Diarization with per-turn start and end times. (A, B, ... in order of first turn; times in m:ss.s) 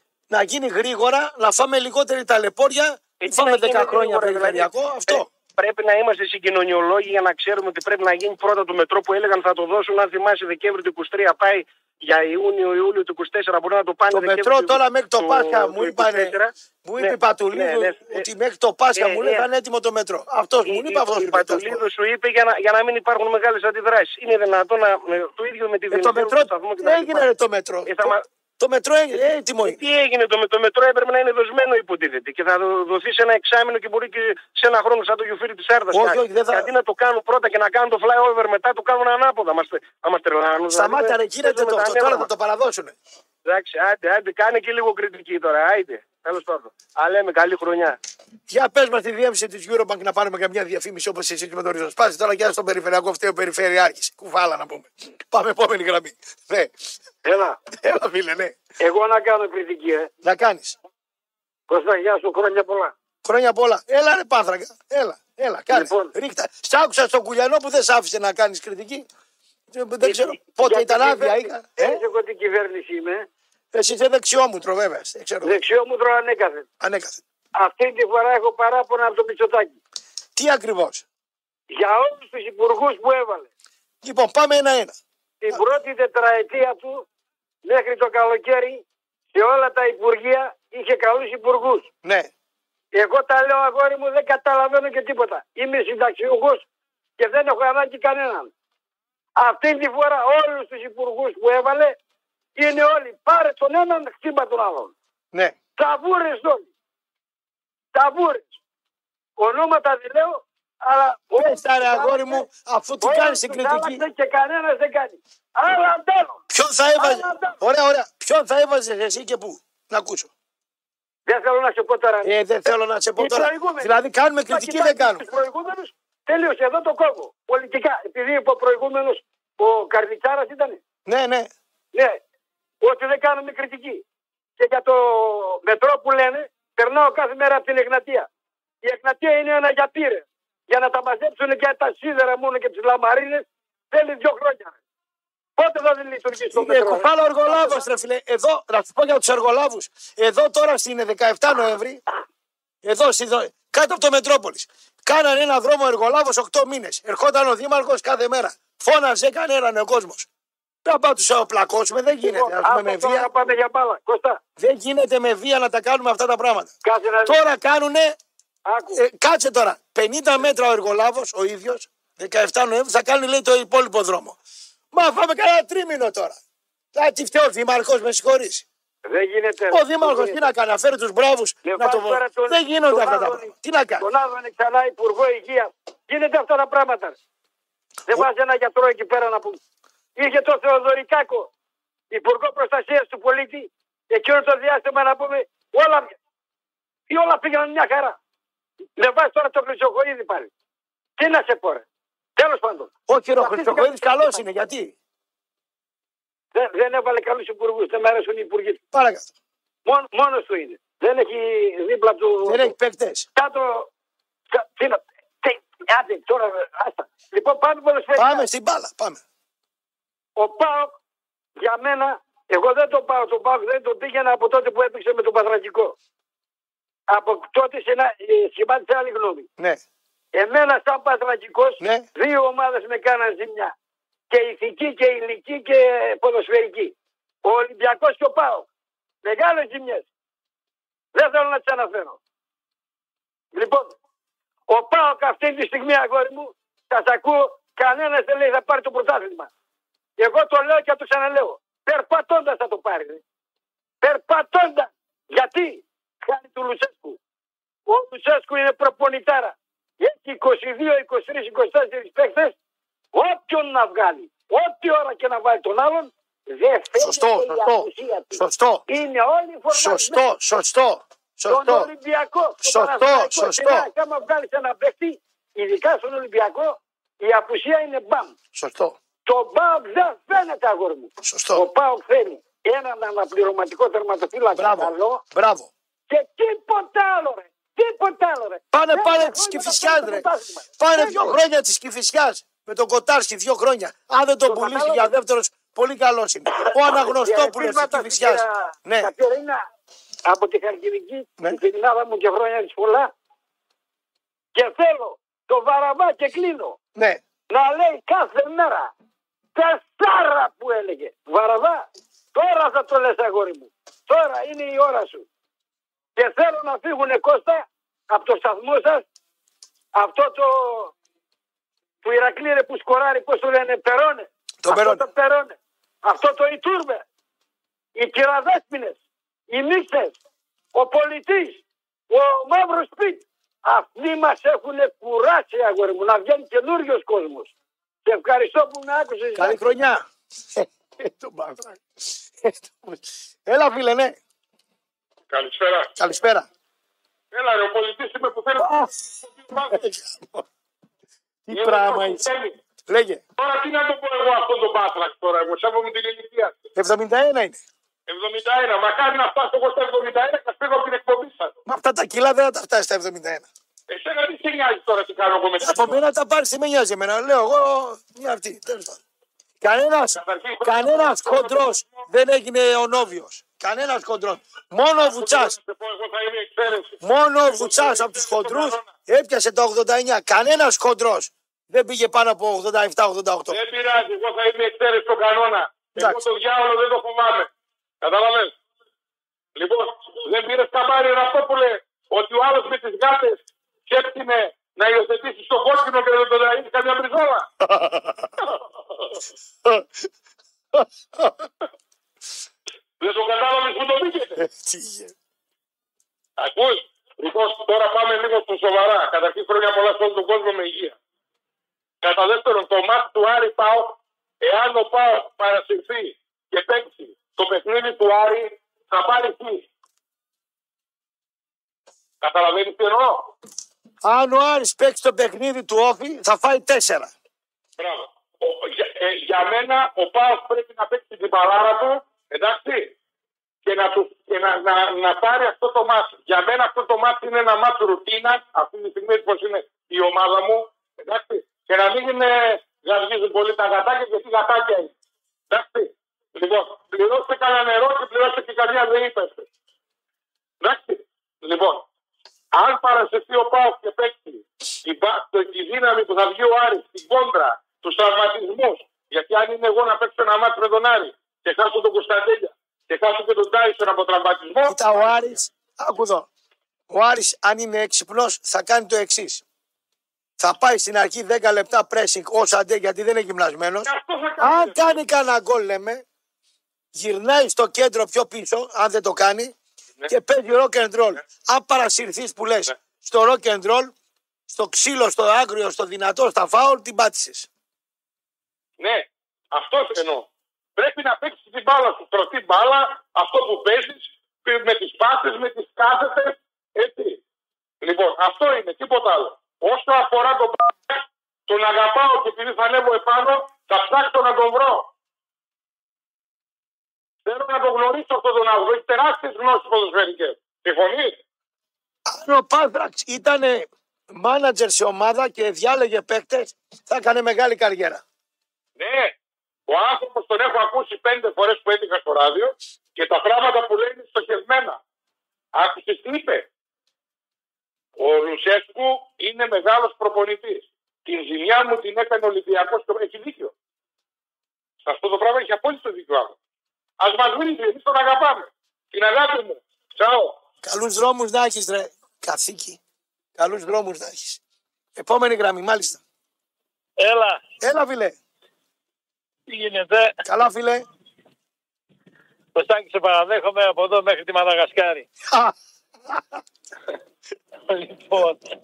0:00.3-0:05.3 A
0:03.2-0:18.2 B
0:14.1-0:21.8 A
0:19.0-0:19.5 B
0:20.7-0:27.3 B
0:25.9-0:29.8 A
0:27.8-0:28.2 B
0:29.6-0:42.3 B
0:35.9-0:36.7 A
0:40.7-0:42.9 A
0:43.4-0:48.0 B
0:48.5-0:56.7 A
0:57.2-0:57.6 C
0:57.8-0:58.6 A
0:58.8-1:00.1 C
1:00.2-1:00.8 A
1:01.7-1:02.9 C
1:03.2-1:09.1 A
1:05.7-1:06.1 C
1:09.7-1:12.0 A
1:10.0-1:13.3 C
1:13.7-1:15.6 A
1:15.4-1:16.7 C
1:16.8-1:17.2 A
1:17.6-1:19.8 C
1:20.4-1:21.0 A
1:21.7-1:23.5 C
1:24.0-1:24.9 A
1:25.4-1:27.0 C
1:27.6-1:31.9 C
1:32.0-1:32.3 A
1:32.9-1:36.7 C
1:37.2-1:38.5 C
1:39.4-1:42.0 C
1:42.6-1:44.9 C
1:45.8-1:46.7 C
1:47.9-1:48.6 C
1:49.4-1:52.4 C
1:51.4-1:54.0 A
1:53.0-1:56.4 C
1:56.5-2:00.3 A
1:57.0-1:57.6 C
2:01.3-2:02.3 C
2:02.2-2:05.3 A
2:03.2-2:10.8 C
2:11.1-2:11.5 A
2:11.9-2:12.2 C
2:12.8-2:14.0 C
2:14.6-2:18.3 C
2:18.8-2:24.8 C
2:25.6-2:27.9 C
2:26.5-2:32.0 A
2:32.8-2:40.3 A
2:40.8-2:43.3 A
2:42.2-2:44.4 C
2:44.6-2:46.7 A
2:46.8-2:47.4 C
2:47.2-2:48.2 A
2:48.7-2:49.0 C
2:48.9-2:54.4 A
2:54.9-2:56.4 A
2:56.9-2:58.6 A
2:59.1-3:00.5 C
2:59.7-3:04.1 A
3:01.6-3:07.2 C
3:08.1-3:09.6 C
3:10.2-3:11.5 C
3:12.1-3:16.2 C
3:17.1-3:18.2 C
3:19.0-3:20.5 C
3:21.2-3:24.5 C
3:23.1-3:25.0 A
3:26.5-3:28.8 C
3:28.9-3:29.3 A
3:29.9-3:32.8 C
3:32.4-3:33.3 A
3:33.4-3:33.9 C
3:34.5-3:38.5 C
3:38.2-3:39.2 A
3:40.4-3:41.0 C
3:41.6-3:46.0 C
3:47.1-3:49.5 C
3:50.3-3:53.7 C
3:51.8-3:52.1 A
3:54.3-3:58.7 C
3:59.2-4:00.1 C
4:01.2-4:02.2 C
4:03.5-4:04.0 C
4:04.7-4:09.5 C
4:10.2-4:13.2 C
4:14.0-4:17.2 C
4:17.9-4:22.6 C
4:23.1-4:30.3 C
4:27.0-4:28.8 A
4:29.7-4:31.9 A
4:31.5-4:38.4 C
4:32.6-4:33.9 A
4:38.6-4:39.0 A
4:39.3-4:45.2 C
4:41.2-4:41.7 A
4:44.6-4:45.7 A
4:46.1-4:51.4 C
4:48.7-4:59.1 A
4:54.5-4:55.1 C
4:56.6-4:59.6 C
5:00.2-5:03.1 C
5:04.6-5:06.8 C
5:07.0-5:07.2 A
5:07.5-5:08.9 C
5:09.6-5:15.3 C
5:16.2-5:19.1 C
5:19.9-5:20.9 C
5:22.0-5:27.0 C
5:24.6-5:25.0 A
5:28.0-5:30.2 C
5:30.7-5:37.5 C
5:38.1-5:39.6 C
5:39.4-5:40.0 A
5:40.6-5:44.2 A
5:45.3-5:46.0 D
5:46.0-5:46.5 A
5:47.3-5:49.9 D
5:48.6-5:48.9 A
5:49.7-5:50.4 A
5:51.5-5:52.3 A
5:51.5-5:52.6 D
5:52.9-5:53.2 A
5:53.4-5:56.6 D
5:56.8-5:57.6 A
5:58.1-6:01.5 D
6:01.7-6:03.5 A
6:03.9-6:06.0 D
6:05.6-6:09.0 A
6:09.6-6:15.6 A
6:10.1-6:12.1 D
6:15.0-6:18.9 D
6:17.0-6:23.6 A
6:23.5-6:27.5 D
6:28.0-6:28.5 D
6:29.6-6:37.5 D
6:37.7-6:38.2 A
6:40.8-6:41.4 A
6:43.0-6:44.4 D
6:44.4-6:45.1 A
6:46.4-6:51.0 D
6:52.0-6:59.7 D
7:02.2-7:03.3 D
7:04.0-7:07.1 A
7:07.8-7:12.9 D
7:13.6-7:24.9 D
7:25.5-7:29.5 D
7:30.6-7:31.8 D
7:32.5-7:45.4 D
7:44.7-7:46.3 A
7:46.9-7:49.4 A
7:50.4-7:56.0 A
7:53.9-7:55.0 D
7:57.0-7:59.5 A
8:00.1-8:03.9 A
8:04.5-8:07.5 A
8:08.8-8:17.2 D
8:17.8-8:24.9 D
8:27.2-8:31.2 D
8:32.1-8:38.0 A
8:38.8-8:39.1 D
8:39.7-8:44.8 D
8:45.5-8:46.5 D
8:48.0-8:53.5 D
8:54.8-8:56.4 D
8:57.0-9:00.4 D
9:00.6-9:02.8 A
9:03.4-9:04.4 A
9:05.0-9:06.0 A
9:07.0-9:07.4 E
9:07.6-9:08.2 A
9:09.5-9:10.2 E
9:10.2-9:10.8 A
9:12.6-9:15.1 E
9:17.7-9:18.4 E